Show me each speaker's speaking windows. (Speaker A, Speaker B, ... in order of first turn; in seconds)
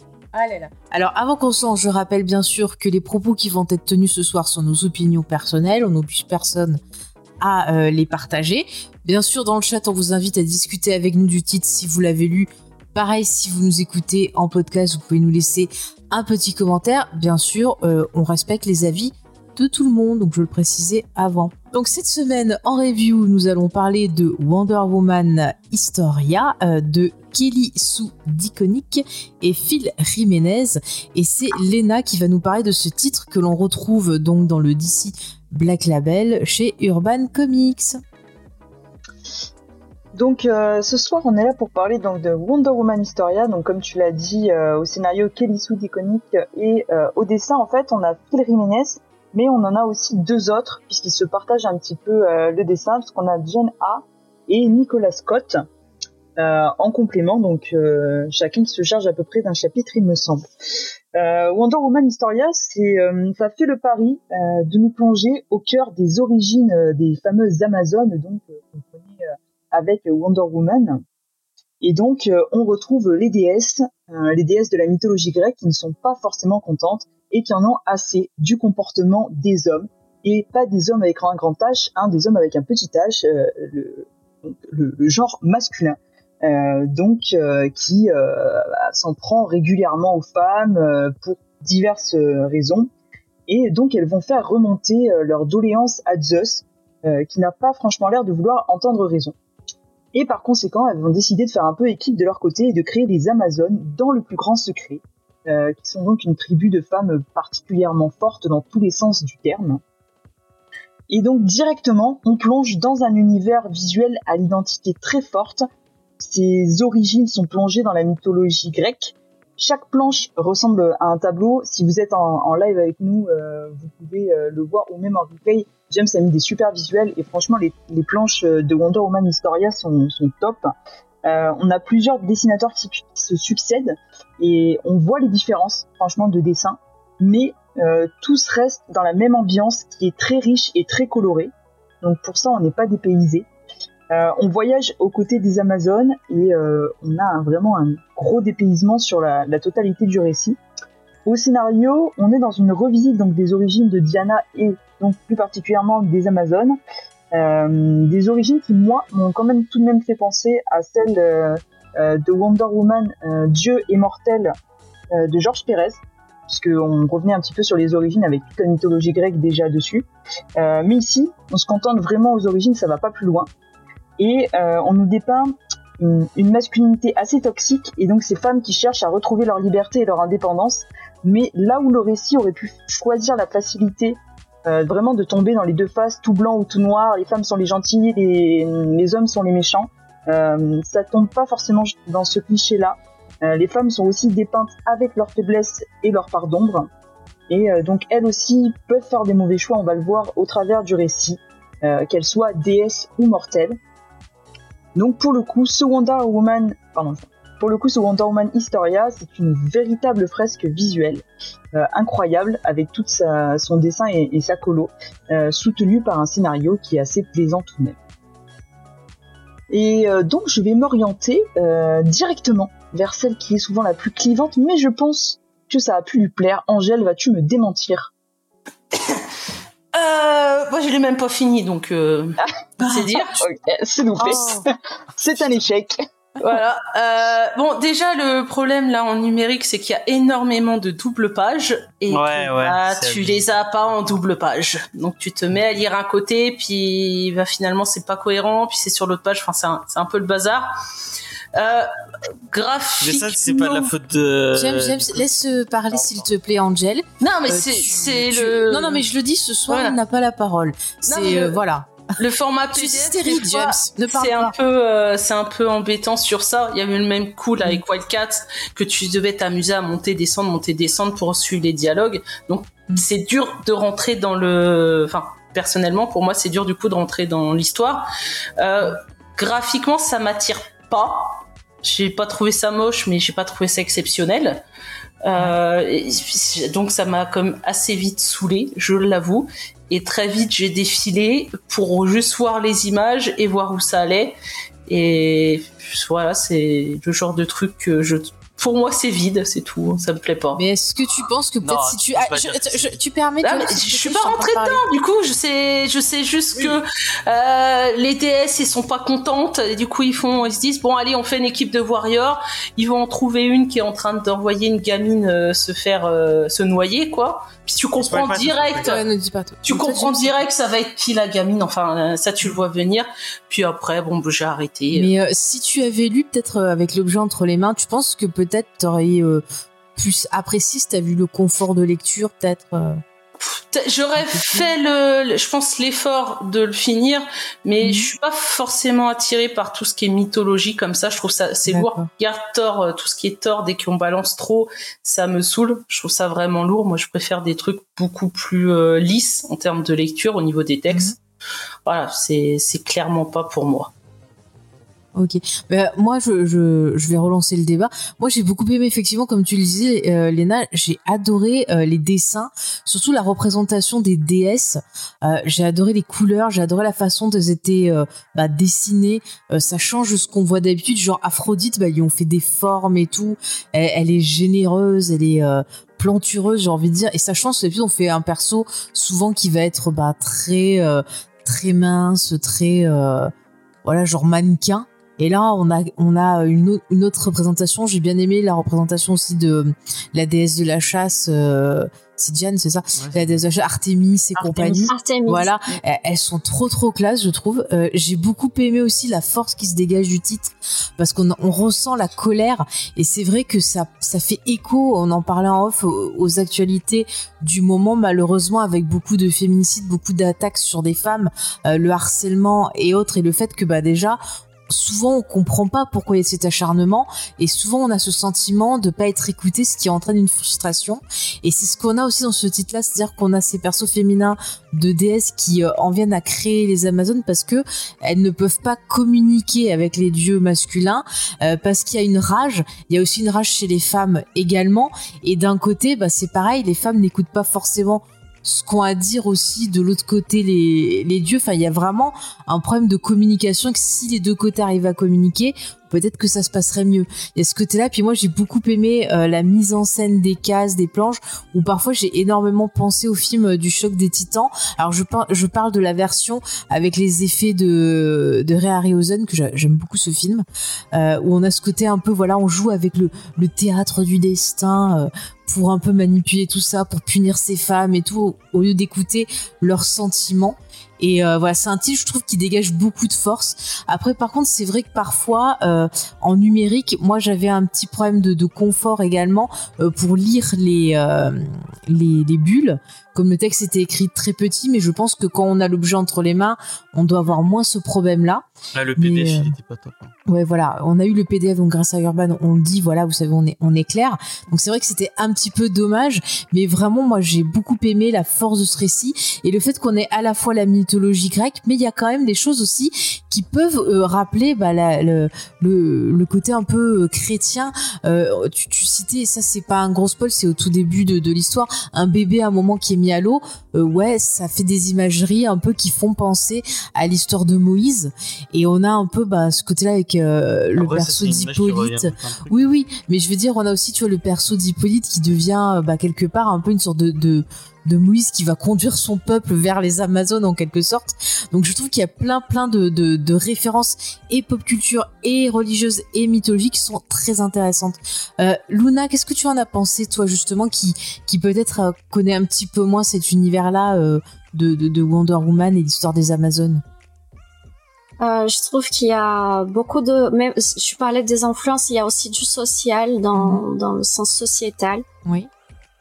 Speaker A: 0.3-6.8, 7.4-38.0, 232.8-233.2, 254.5-261.9, 262.7-264.5, 300.5-304.8, 318.8-320.4, 324.9-329.4, 329.9-333.0, 334.2-334.7, 337.8-338.1, 341.7-342.1, 350.9-351.1, 355.1-383.3, 383.8-488.4, 489.0-489.5, 490.3-546.8, 553.4-553.6
Speaker B: 40.1-55.6, 56.4-60.5, 61.1-71.0, 71.8-92.9, 93.5-99.3, 100.1-109.8, 111.1-115.6, 116.2-130.7, 131.2-143.5, 144.1-150.6, 151.2-156.8, 157.3-164.5, 165.1-173.5, 174.2-196.9, 197.5-203.8, 204.9-218.0, 219.7-228.1, 233.4-236.0, 394.3-394.9
Speaker C: 228.9-229.2, 229.9-233.4, 234.2-234.6, 236.4-250.7, 251.5-251.9, 252.5-253.9, 257.2-259.0, 259.7-260.0, 261.1-261.6, 262.2-278.1, 278.6-284.6, 285.2-294.4, 294.9-300.6, 303.4-319.0, 319.6-325.1, 333.4-351.2, 351.9-353.9
Speaker D: 242.1-243.4, 253.0-255.3, 255.9-256.2, 301.6-303.0, 306.5-306.8, 318.0-318.9, 392.9-393.3, 488.7-490.1, 520.8-522.6
Speaker E: 394.9-395.6, 548.2-555.0